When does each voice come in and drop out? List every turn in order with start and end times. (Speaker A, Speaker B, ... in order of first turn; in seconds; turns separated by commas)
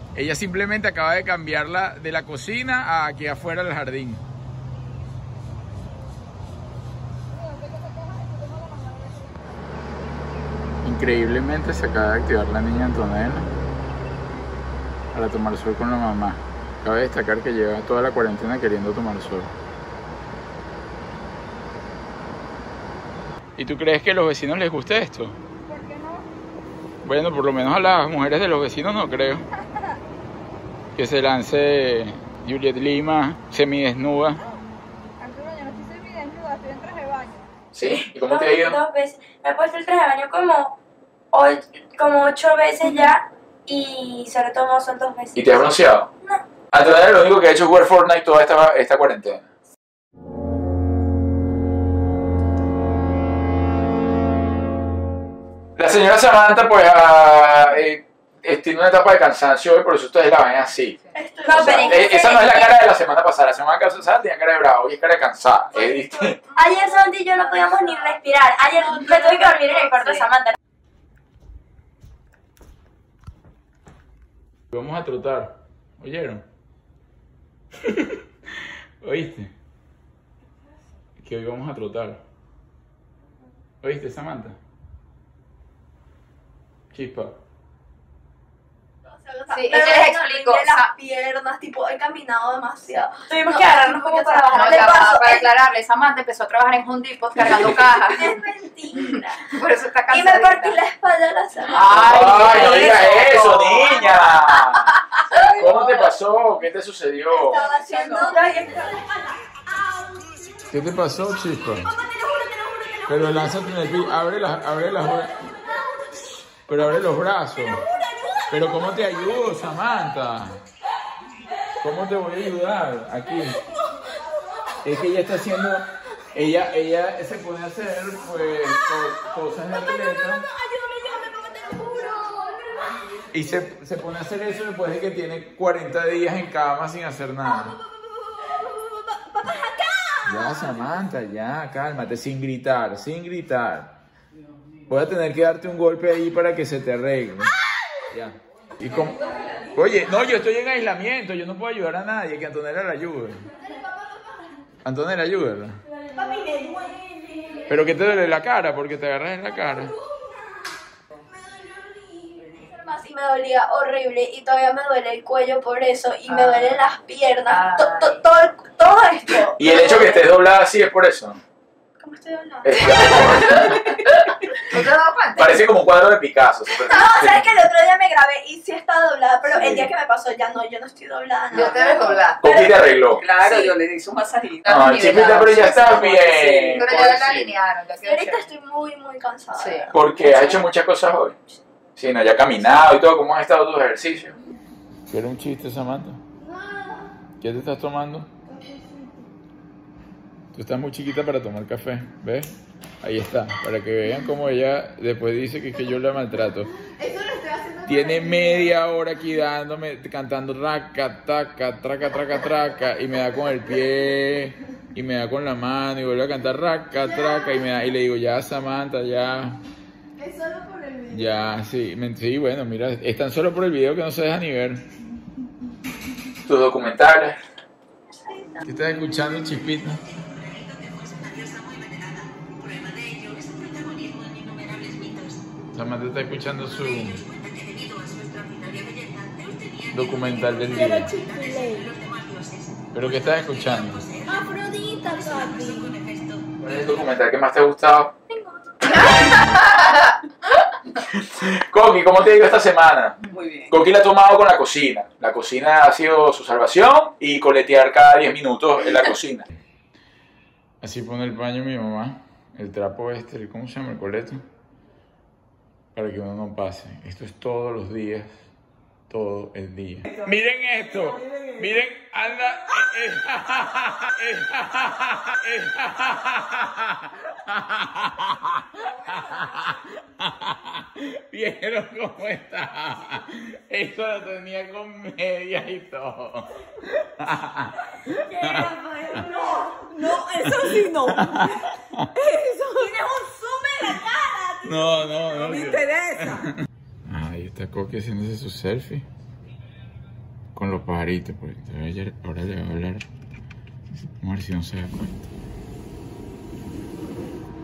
Speaker A: 0.1-4.2, Speaker B: 7.3-9.9, Speaker A: 10.8-13.5, Speaker A: 15.1-19.5, Speaker A: 23.6-25.4, Speaker B: 25.7-26.2, Speaker A: 27.0-29.4, Speaker A: 30.9-34.4, Speaker B: 35.2-37.5, Speaker A: 37.7-38.8, Speaker C: 38.2-40.8, Speaker C: 41.3-45.7, Speaker A: 45.3-46.1, Speaker A: 46.7-49.5, Speaker A: 55.8-61.0, Speaker D: 61.1-62.4, Speaker C: 61.4-62.7, Speaker A: 61.5-66.4, Speaker C: 66.5-70.6, Speaker D: 67.6-67.9, Speaker D: 68.8-69.8, Speaker A: 74.7-76.4, Speaker A: 77.8-78.2, Speaker A: 79.0-79.5, Speaker A: 81.2-82.2, Speaker A: 83.8-84.6, Speaker A: 86.9-87.4, Speaker D: 89.1-95.5, Speaker E: 89.5-90.9, Speaker C: 93.3-95.3, Speaker E: 94.5-98.4, Speaker D: 97.4-99.4, Speaker E: 99.0-100.8, Speaker D: 100.1-103.1, Speaker E: 101.7-103.4, Speaker A: 101.7-105.0, Speaker F: 102.1-103.9, Speaker E: 104.0-104.8, Speaker F: 105.3-106.1, Speaker A: 105.5-107.7, Speaker D: 107.3-110.4, Speaker F: 107.8-108.4, Speaker C: 107.8-109.0, Speaker A: 110.7-111.9, Speaker D: 112.0-113.0, Speaker A: 113.0-115.4, Speaker A: 116.7-117.8, Speaker D: 117.8-118.6, Speaker A: 118.5-120.6, Speaker A: 121.8-123.6, Speaker A: 124.8-130.4, Speaker D: 130.5-132.7, Speaker A: 133.3-137.8, Speaker D: 137.4-140.8, Speaker A: 140.2-144.0, Speaker A: 144.9-147.6, Speaker A: 148.1-149.2, Speaker F: 149.0-149.6, Speaker D: 149.2-149.6, Speaker A: 149.7-153.4, Speaker D: 153.6-154.6, Speaker A: 154.8-155.8, Speaker D: 156.1-157.8, Speaker A: 157.7-159.9, Speaker D: 161.3-170.2, Speaker E: 166.3-166.8, Speaker E: 167.5-168.2, Speaker A: 169.6-171.4, Speaker D: 172.0-173.8, Speaker A: 172.6-173.8, Speaker E: 173.1-173.8, Speaker E: 174.6-175.6, Speaker A: 175.3-177.5, Speaker D: 176.8-182.2, Speaker A: 179.4-179.9, Speaker E: 181.5-182.5, Speaker A: 182.4-183.2, Speaker F: 182.4-186.9, Speaker E: 184.6-186.2, Speaker A: 184.7-187.5, Speaker E: 186.8-188.4, Speaker D: 188.0-190.6, Speaker E: 189.6-189.9, Speaker A: 189.9-191.3, Speaker A: 191.9-194.3, Speaker A: 195.1-196.2, Speaker D: 196.4-197.1, Speaker A: 197.4-198.3, Speaker D: 198.4-199.2, Speaker A: 200.5-206.7, Speaker D: 206.8-208.8, Speaker A: 207.8-219.6, Speaker D: 217.0-217.6, Speaker D: 220.2-221.5, Speaker A: 221.1-224.8, Speaker A: 226.4-227.4, Speaker D: 228.2-228.7, Speaker A: 228.6-230.0, Speaker A: 235.7-237.2, Speaker A: 239.9-241.1, Speaker D: 240.7-242.0, Speaker A: 242.9-244.1, Speaker D: 244.2-246.0, Speaker A: 246.6-248.1, Speaker C: 248.4-249.1, Speaker E: 248.9-250.2, Speaker A: 251.0-259.5, Speaker F: 253.3-253.7, Speaker A: 260.8-264.4, Speaker A: 265.9-268.4, Speaker A: 269.1-289.2, Speaker F: 270.1-271.6, Speaker C: 288.1-289.8, Speaker D: 288.5-290.0, Speaker F: 289.9-291.6, Speaker A: 290.5-292.1, Speaker F: 292.2-292.9, Speaker D: 292.8-295.0, Speaker A: 294.6-296.5, Speaker F: 295.3-296.5, Speaker A: 297.1-299.1, Speaker A: 300.5-303.0, Speaker A: 303.9-305.3